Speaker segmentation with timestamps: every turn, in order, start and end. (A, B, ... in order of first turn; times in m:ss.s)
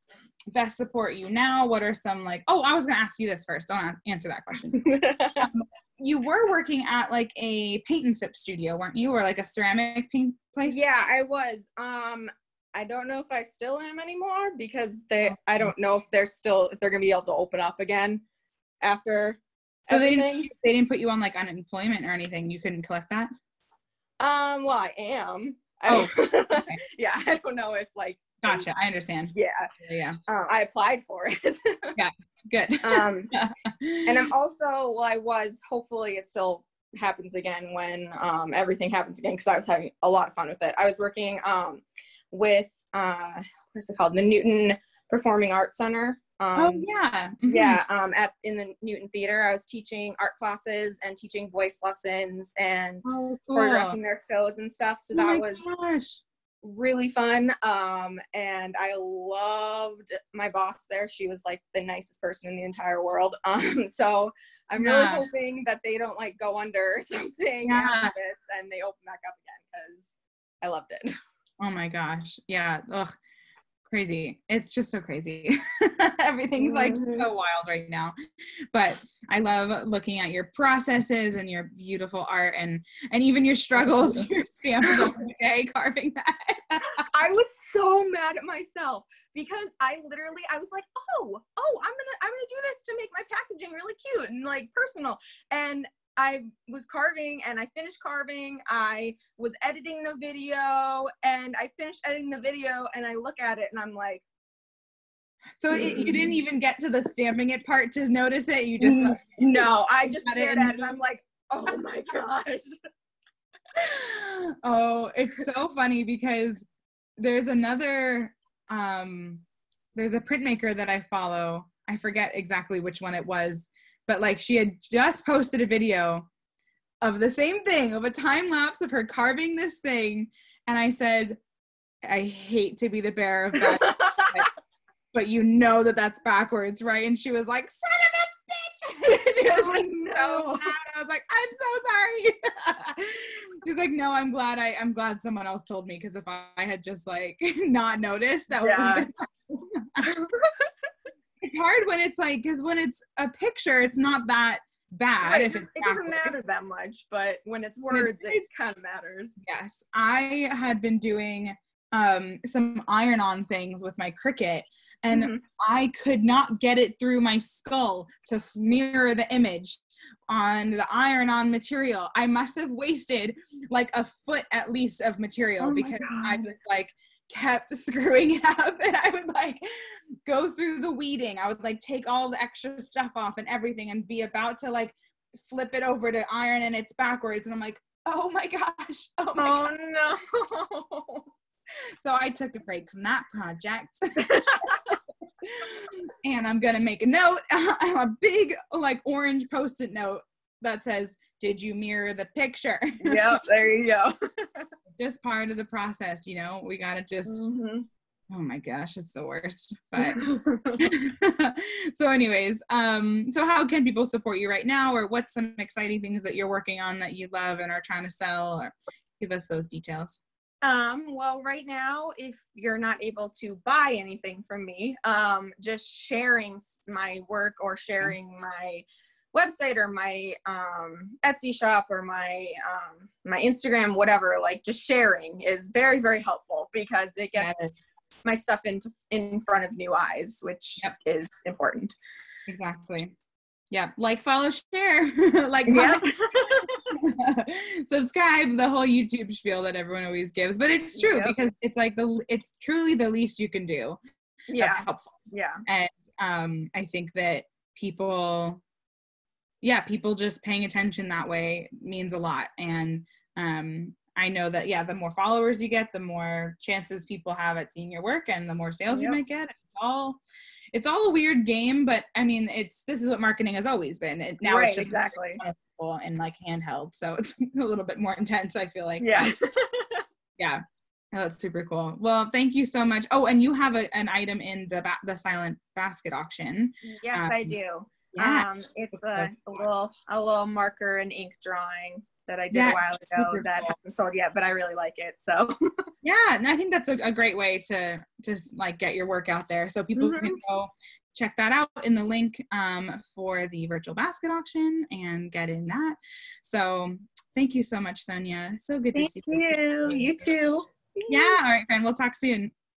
0:00.5-0:04.8 A
0:04.7-0:05.5 B
0:05.4-0:10.8 A
0:10.6-0:18.2 B
0:15.2-0:15.7 A
0:18.8-0:20.5 B
0:19.9-0:23.3 A
0:24.2-0:28.7 B
0:25.8-0:26.8 A
0:28.4-0:30.2 A
0:29.3-0:29.7 B
0:30.3-0:31.9 B
0:32.0-0:34.2 A
0:32.8-0:33.3 B
0:34.0-0:46.9 B
0:46.6-0:47.8 A
0:47.4-0:55.7 B
0:53.0-0:54.0 A
0:55.1-0:56.2 A
0:56.6-1:11.1 B
1:04.8-1:05.2 A
1:07.6-1:08.1 A
1:11.6-1:13.1 A
1:13.8-1:18.1 A
1:16.6-1:17.3 B
1:18.7-1:27.0 A
1:23.8-1:24.3 B
1:24.8-1:25.1 B
1:27.1-1:44.2 B
1:45.6-1:51.0 A
1:45.7-1:46.4 B
1:48.8-1:52.7 B
1:53.8-1:59.4 A
1:59.9-2:06.3 A
2:07.0-2:11.4 A
2:12.0-2:14.5 A
2:13.6-2:14.4 B
2:15.1-2:30.0 A
2:19.0-2:20.7 B
2:28.6-2:29.1 B
2:30.0-2:30.7 B
2:31.4-2:36.3 A
2:35.2-2:39.4 B
2:37.9-2:38.4 A
2:39.4-3:09.6 A
2:45.1-2:45.4 B
2:55.6-2:56.5 B
3:09.4-3:11.3 B
3:12.0-3:14.3 A
3:14.2-3:15.0 B
3:15.4-3:23.3 A
3:23.0-3:24.7 B
3:25.0-3:27.4 A
3:27.3-3:27.9 B
3:28.3-3:30.3 A
3:30.0-3:30.8 B
3:30.8-3:40.2 A
3:40.6-4:02.0 B
3:57.4-3:57.7 A
4:02.5-4:03.1 A
4:03.7-4:06.1 A
4:05.7-4:06.8 B
4:07.0-4:14.0 A
4:11.0-4:11.4 B
4:14.5-4:15.6 B
4:14.6-4:15.1 A
4:15.6-4:18.6 A
4:19.6-4:30.2 A
4:28.9-4:29.2 B
4:30.7-4:39.3 A
4:34.4-4:35.4 B
4:39.0-4:40.0 B
4:41.1-4:47.5 A
4:46.8-4:55.5 B
4:48.1-4:49.3 A
4:52.5-4:53.8 A
4:56.0-5:10.2 A
5:00.0-5:00.4 B
5:08.9-5:11.4 B
5:11.1-5:12.5 A